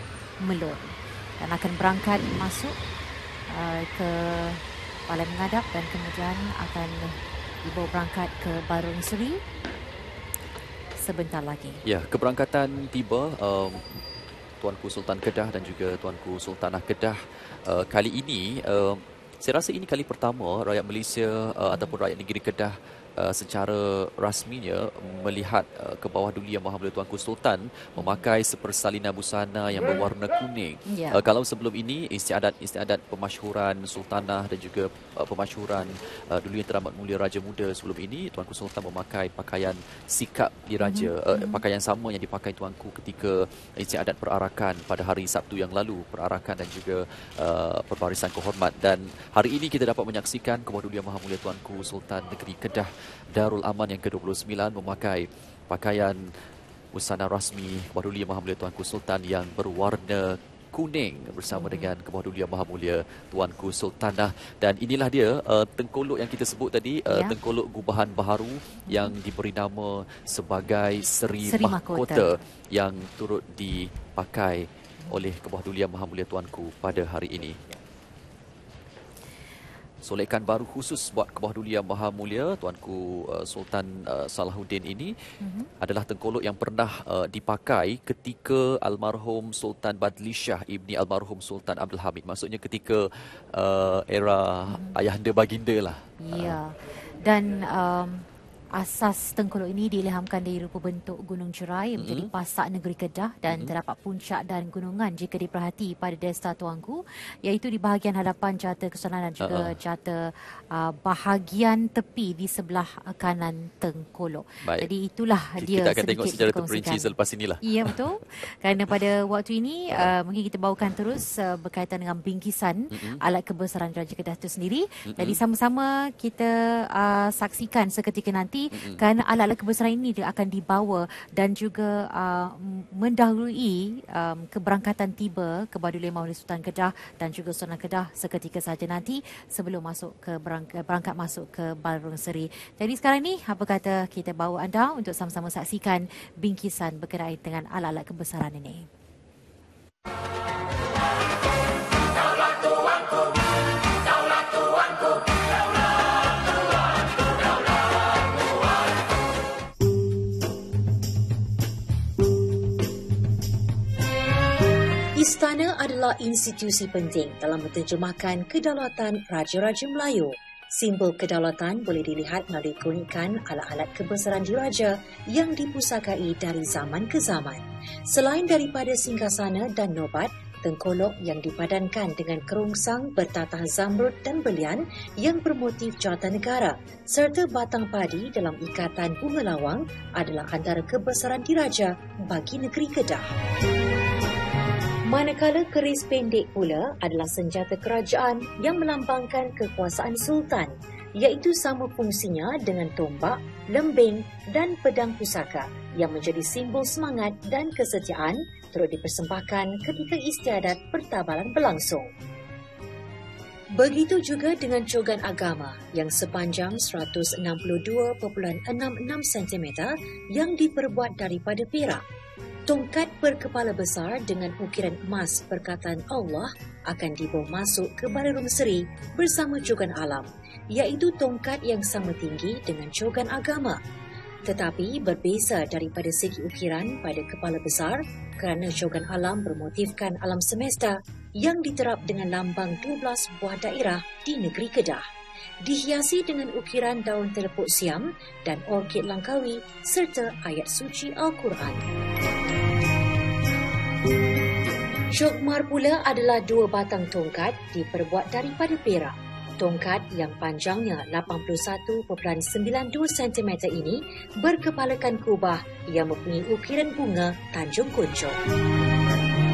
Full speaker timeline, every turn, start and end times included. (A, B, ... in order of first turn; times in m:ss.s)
0:00.4-0:02.8 A
0:03.5-0:09.4 A
0:11.0-0:11.8 A
0:11.8-0:14.0 B
0:14.6-0:56.3 B
0:28.0-0:28.2 A
0:30.8-0:31.2 A
0:40.8-0:41.6 A
0:56.9-1:17.6 B
1:01.5-1:01.9 A
1:07.1-1:07.4 A
1:08.9-1:09.1 A
1:11.4-1:12.4 A
1:20.0-1:25.1 B
1:25.4-1:25.7 A
1:25.8-1:36.6 B
1:34.7-1:35.0 A
1:36.2-1:57.1 A
1:42.0-1:42.3 B
1:43.5-1:43.7 B
1:49.4-1:49.8 B
1:54.6-1:54.9 B
1:55.6-1:58.0 B
1:57.6-2:28.9 A
2:02.9-2:03.2 B
2:05.1-2:05.4 B
2:08.7-2:09.0 B
2:45.1-3:13.2 C
3:15.0-3:32.1 C
3:33.8-3:42.0 C
3:42.7-3:53.8 C
3:54.4-4:05.0 C
4:05.6-4:11.8 C
4:15.1-4:28.4 C